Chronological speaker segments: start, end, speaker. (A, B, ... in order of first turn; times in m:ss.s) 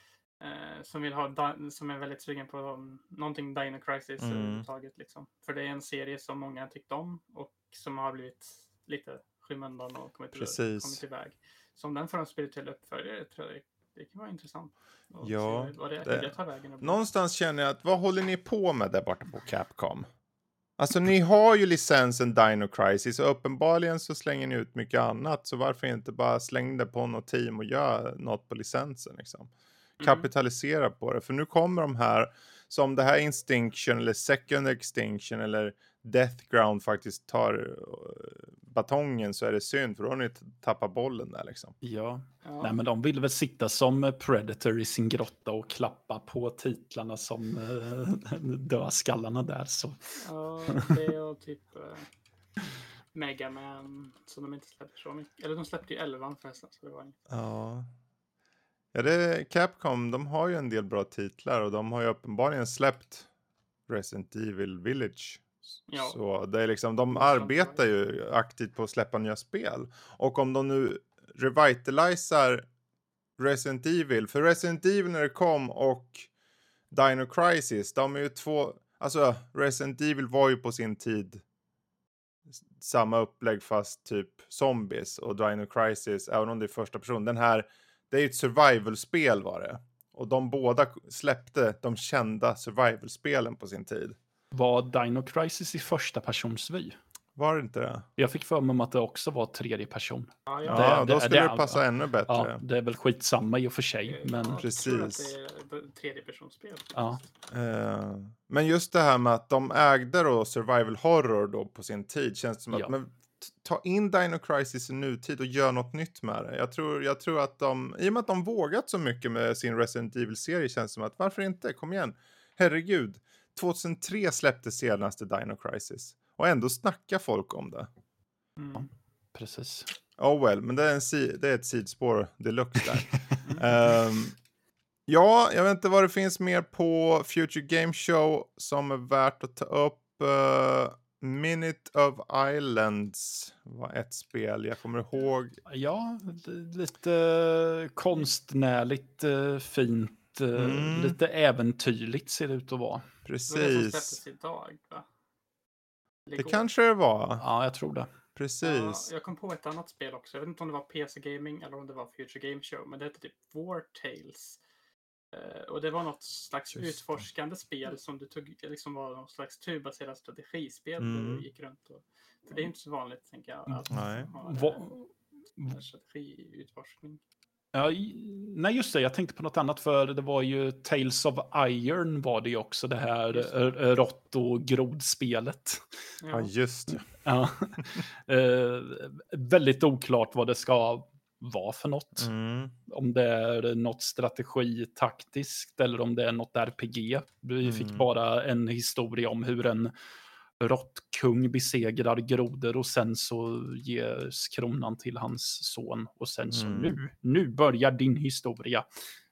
0:00.4-0:17.0 A
0:04.2-0:04.7 B
0:10.3-0:11.0 B
0:15.2-0:20.1 B
0:20.8-0:41.8 B
0:30.0-0:30.3 A
0:41.8-0:51.0 C
0:42.4-0:42.8 A
0:50.2-0:52.1 A
0:53.1-0:57.2 A
0:57.3-0:57.9 B
0:58.9-1:03.3 B
1:03.9-1:12.7 B
1:05.9-1:06.2 A
1:07.1-1:07.9 A
1:13.4-1:16.3 B
1:16.9-1:21.4 B
1:22.6-1:34.2 B
1:34.5-1:37.0 C
1:37.4-1:38.1 B
1:38.2-1:44.6 C
1:40.5-1:41.1 A
1:40.6-1:42.6 B
1:44.1-1:47.2 A
1:44.6-1:45.3 B
1:47.5-2:07.9 B
2:08.6-2:08.9 A
2:08.7-2:09.9 C
2:10.2-2:14.4 B
2:15.1-2:25.6 B
2:25.7-2:33.1 C
2:30.5-2:31.2 B
2:33.2-2:34.2 B
2:33.5-2:35.1 A
2:36.3-2:36.7 A
2:36.4-2:37.4 B
2:37.4-2:38.1 C
2:38.4-2:39.1 B
2:38.6-2:44.6 A
2:45.3-2:55.0 A
2:46.7-2:47.2 B
2:51.0-2:51.5 B
2:53.7-2:55.8 C
2:53.9-2:54.3 B
2:55.6-2:57.2 A
2:57.7-3:05.9 C
3:03.3-3:03.6 A
3:06.2-3:06.5 A
3:06.3-3:07.1 B
3:07.1-3:12.3 C
3:12.2-3:12.8 B
3:12.9-3:19.9 C
3:17.6-3:18.1 B
3:20.6-3:28.9 C
3:26.5-3:27.0 B